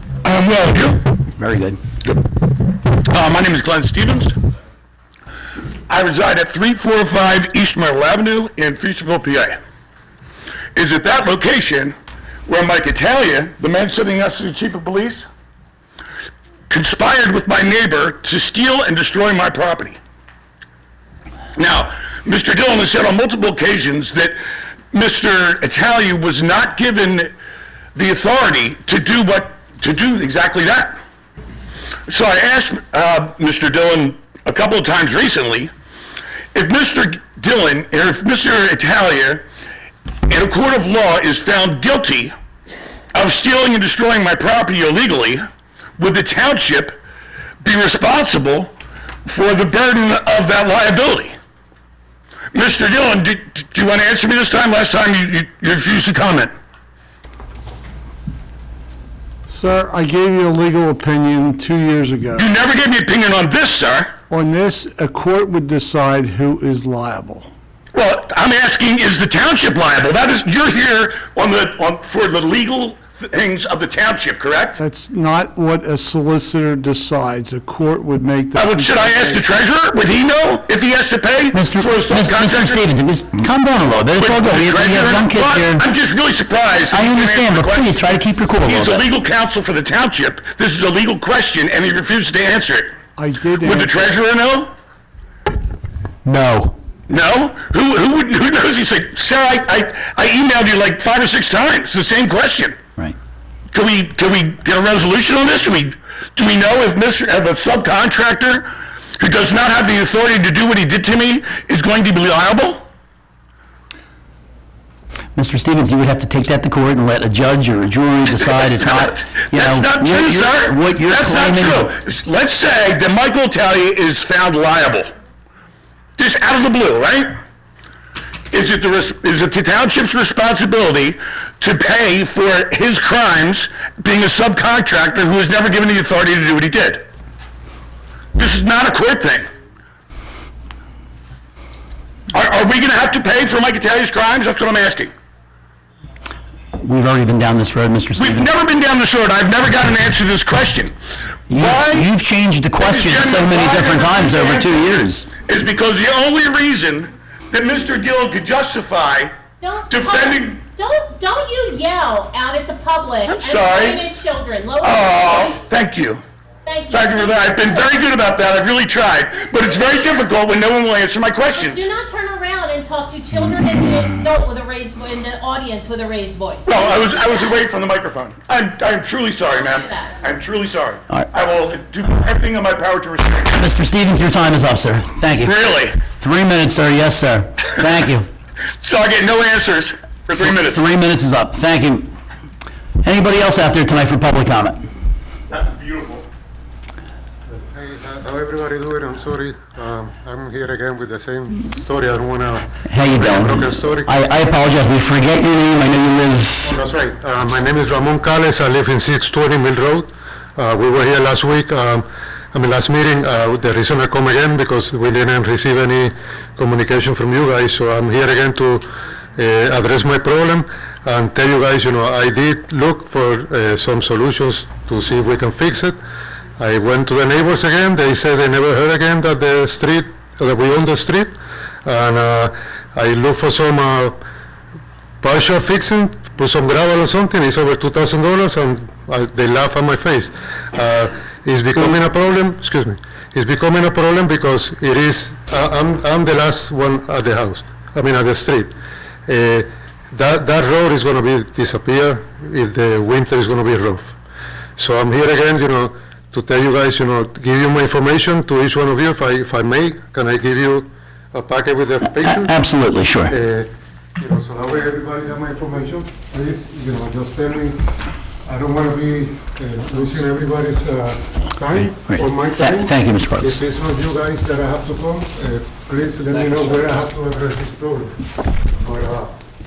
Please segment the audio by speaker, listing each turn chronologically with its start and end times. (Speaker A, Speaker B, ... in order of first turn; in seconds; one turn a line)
Speaker A: 0.2-1.0
Speaker B: 1.4-1.8
Speaker A: 3.0-4.3
Speaker A: 5.9-9.6
Speaker A: 10.8-11.9
Speaker A: 12.5-15.2
Speaker A: 16.7-20.0
Speaker A: 21.6-24.4
Speaker A: 24.9-27.3
Speaker A: 27.9-31.0
Speaker A: 32.1-35.7
Speaker A: 36.5-39.4
Speaker A: 40.3-42.3
Speaker A: 43.1-45.5
Speaker A: 46.0-47.0
Speaker A: 47.6-48.7
Speaker A: 49.2-51.3
Speaker A: 52.5-56.5
Speaker C: 59.5-62.5
Speaker A: 62.4-64.2
Speaker C: 64.3-67.5
Speaker A: 67.9-74.8
Speaker C: 74.8-79.4
Speaker A: 78.5-82.8
Speaker B: 81.5-85.8
Speaker A: 84.2-93.0
Speaker B: 86.9-89.0
Speaker C: 93.2-94.1
Speaker A: 93.6-94.7
Speaker B: 96.2-96.7
Speaker A: 97.1-102.8
Speaker A: 103.7-108.7
Speaker A: 109.2-112.8
Speaker B: 115.3-121.9
Speaker A: 118.4-125.1
Speaker A: 126.2-127.3
Speaker A: 128.5-137.0
Speaker A: 138.3-139.5
Speaker A: 142.3-145.1
Speaker B: 146.8-148.5
Speaker A: 148.2-150.9
Speaker B: 151.5-155.3
Speaker A: 151.5-152.1
Speaker A: 152.8-159.3
Speaker D: 159.6-165.6
Speaker A: 159.9-160.6
Speaker A: 163.2-164.0
Speaker A: 164.8-166.2
Speaker D: 166.6-167.9
Speaker A: 166.9-171.9
Speaker D: 169.5-170.2
Speaker D: 171.6-177.6
Speaker A: 176.7-183.6
Speaker D: 179.5-180.3
Speaker B: 183.5-188.3
Speaker A: 185.4-186.0
Speaker A: 188.8-190.9
Speaker B: 190.4-192.1
Speaker B: 193.0-194.8
Speaker A: 195.5-196.3
Speaker E: 197.5-204.2
Speaker B: 202.9-206.7
Speaker E: 206.6-226.0
Speaker E: 226.6-234.2
Speaker E: 235.2-248.7
Speaker E: 249.2-254.2
Speaker E: 254.8-262.6
Speaker B: 262.2-263.3
Speaker E: 263.3-267.8
Speaker E: 268.4-278.2
Speaker B: 271.7-273.6
Speaker E: 278.8-279.3